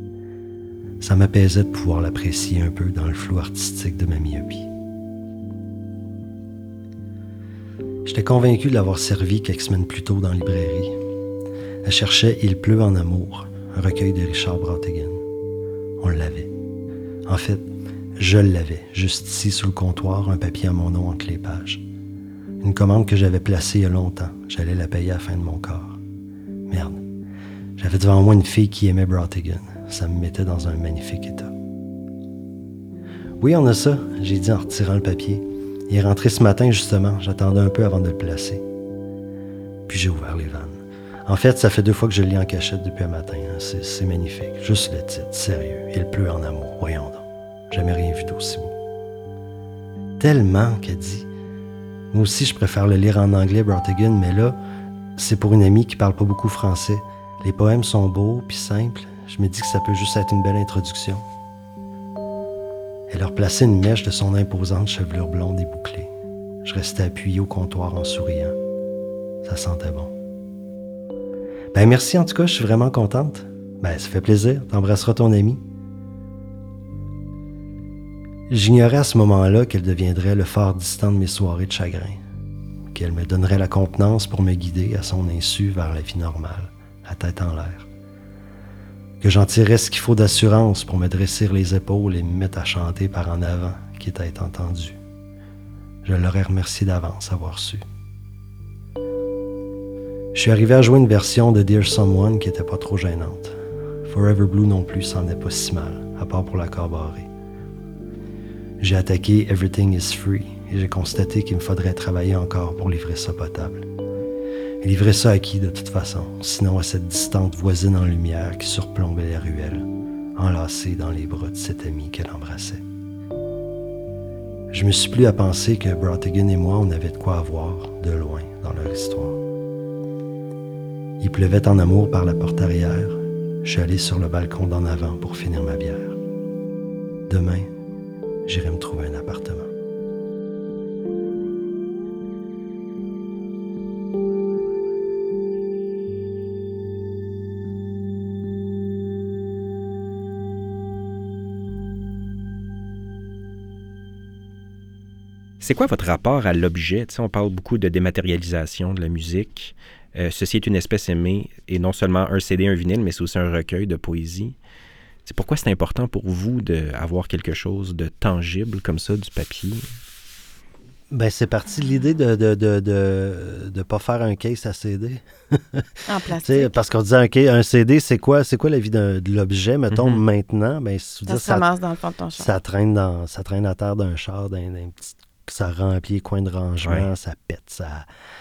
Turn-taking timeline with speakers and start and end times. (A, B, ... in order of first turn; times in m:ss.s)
0:01.0-0:04.7 A
0:08.0-0:11.0 A
0:11.8-0:15.2 A
0:16.0-0:16.5 A
0:17.3-0:21.8 A
0:22.6-0:26.0 A
0:26.7-0:27.0 A
0:27.8-0:31.5 A
0:33.4-0:38.6 A
0:39.9-0:48.8 A
0:50.2-0:51.3 A
0:52.1-0:54.6 A
0:55.2-1:01.2 A
1:03.1-1:06.1 A
1:06.6-1:08.6 A
1:09.4-1:10.2 A
1:11.7-1:15.6 A
1:18.5-1:22.2 A
1:22.9-1:27.9 A
1:29.2-1:35.0 A
1:36.0-1:37.8 A
1:40.3-1:47.3 A
1:48.8-1:53.9 A
1:54.8-2:02.8 A
2:04.7-2:09.4 A
2:11.2-2:16.2 A
2:17.3-2:17.7 A
2:18.5-2:19.7 A
2:35.6-2:44.6 B
2:45.3-2:49.8 B
2:51.1-2:55.9 A
2:56.1-2:56.8 C
2:56.4-3:01.7 A
2:59.9-3:00.2 B
3:01.3-3:02.6 C
3:02.4-3:08.1 A